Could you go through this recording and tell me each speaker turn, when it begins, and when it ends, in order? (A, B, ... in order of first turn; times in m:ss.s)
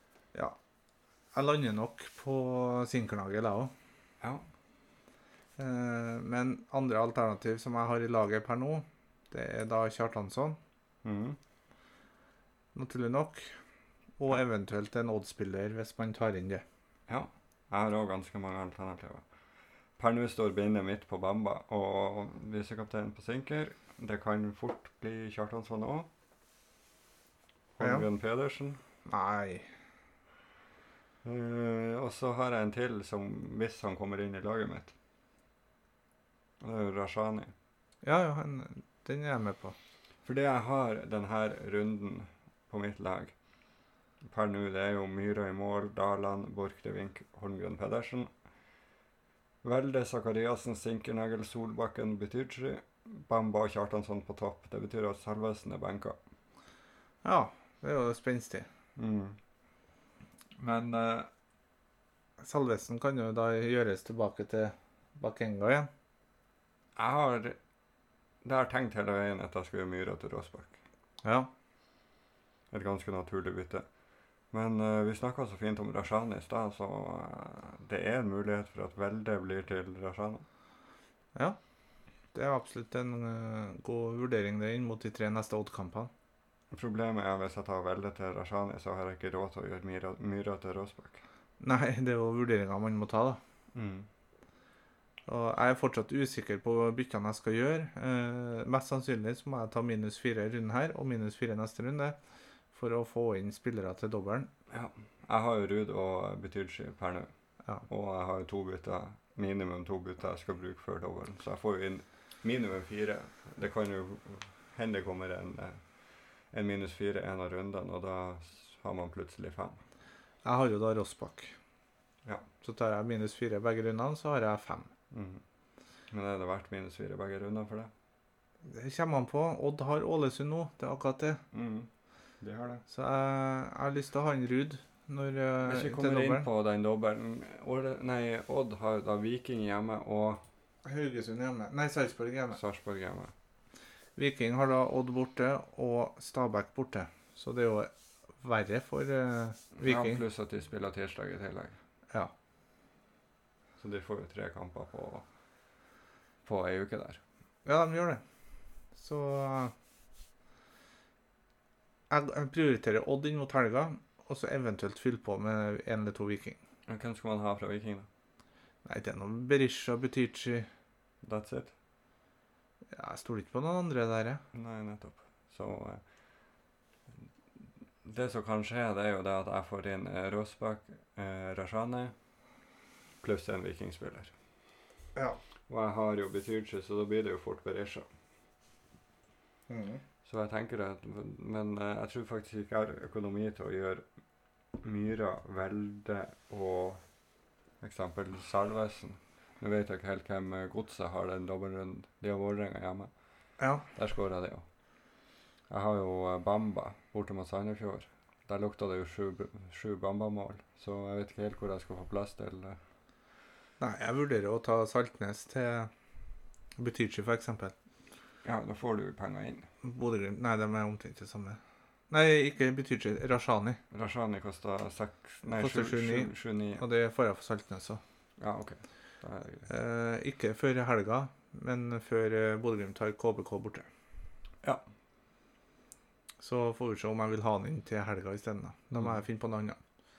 0:01.3-0:03.7 A
0:04.2-0:04.5 B
0:05.6-0:10.6 A
0:11.0-0:11.4 B
0:12.8-0:13.5 A
0:14.2-0:16.6 A
0:17.1-0:19.2 B
0:20.0-0:26.1 B
0:27.8-0:28.8 B
0:29.1-0:29.7 A
0:31.2-0:35.0 B
0:36.6-0:37.5 B
0:38.0-0:39.8 A
0:40.2-0:43.3 B
0:44.2-0:48.3 B
0:49.6-0:56.2 B
0:57.2-0:58.7 A
0:59.0-0:59.4 B
1:00.6-1:01.3 B
1:02.4-1:05.9 A
1:07.0-1:07.6 B
1:08.4-1:10.8 B
1:11.2-1:11.5 A
1:12.7-1:13.8 B
1:14.5-1:20.4 B
1:22.3-1:26.1 A
1:26.7-1:31.2 B
1:31.6-1:33.4 A
1:33.7-1:34.1 B
1:35.3-1:42.2 A
1:42.7-1:44.5 A
1:44.7-1:47.3 B
1:47.9-1:55.8 B
1:56.5-1:59.8 B
2:00.4-2:01.6 A
2:02.6-2:04.9 A
2:05.1-2:05.4 B
2:06.1-2:07.9 B
2:08.6-2:11.4 A
2:11.5-2:11.9 B
2:12.4-2:12.8 B
2:12.9-2:16.5 A
2:15.6-2:20.4 B
2:20.8-2:22.6 A
2:22.6-2:23.3 B
2:24.2-2:27.9 A
2:28.4-2:30.2 A
2:29.8-2:31.8 B
2:33.8-2:35.3 B
2:36.4-2:37.2 B
2:37.6-2:38.2 A
2:39.0-2:39.7 A
2:42.1-2:46.6 A
2:46.9-2:48.1 B
2:48.8-2:50.7 A
2:51.2-2:51.7 B
2:52.9-2:54.4 A
2:54.5-2:56.0 B
2:58.0-3:02.1 B
3:03.2-3:04.3 B
3:05.7-3:08.1 B
3:09.7-3:10.0 A
3:10.2-3:14.0 B
3:14.8-3:17.0 B
3:17.8-3:23.1 B
3:23.6-3:23.9 A
3:24.0-3:24.6 B
3:25.7-3:32.8 B
3:33.8-3:35.9 A
3:36.8-3:37.8 A
3:38.4-3:39.7 B
3:39.8-3:43.8 A
3:43.9-3:46.8 B
3:45.5-3:48.0 A
3:48.4-3:49.7 B
3:49.7-3:53.9 A
3:56.4-3:59.8 A